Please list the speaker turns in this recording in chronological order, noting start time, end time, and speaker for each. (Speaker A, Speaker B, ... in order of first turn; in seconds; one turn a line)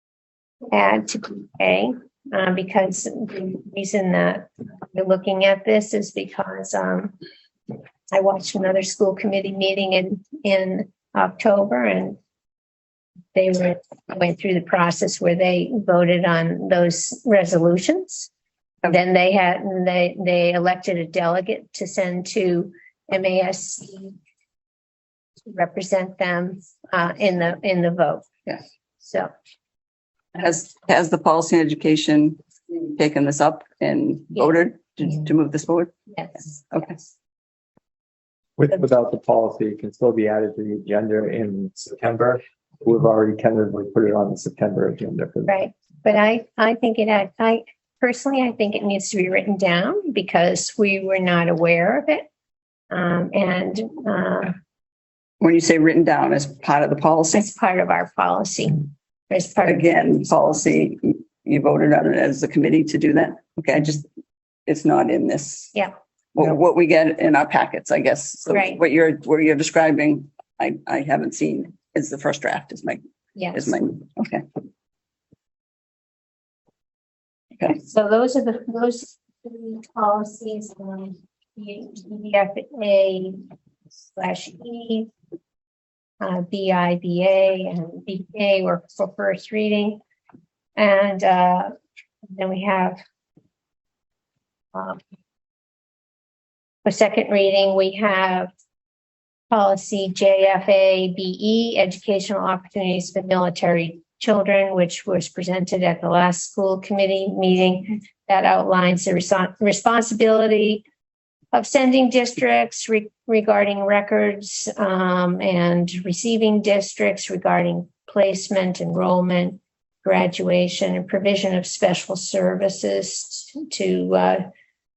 Speaker A: 0.7-7.1
Speaker A: 8.1-12.2
Speaker A: 13.3-18.3
Speaker A: 18.8-24.1
Speaker A: 25.5-28.3
Speaker A: 29.0-29.3
Speaker B: 30.3-32.4
Speaker B: 32.9-37.0
Speaker C: 38.6-45.5
Speaker A: 45.5-52.3
Speaker A: 52.9-54.5
Speaker B: 55.4-57.5
Speaker A: 57.3-59.9
Speaker B: 59.6-64.0
Speaker B: 64.7-65.7
Speaker B: 66.3-73.0
Speaker A: 68.5-68.8
Speaker A: 73.3-73.7
Speaker B: 73.5-74.4
Speaker A: 77.8-83.4
Speaker A: 84.1-85.1
Speaker A: 86.2-90.0
Speaker A: 90.8-91.7
Speaker A: 92.3-93.0
Speaker A: 94.7-95.0
Speaker A: 96.8-98.5
Speaker A: 99.5-110.8
Speaker A: 111.5-124.4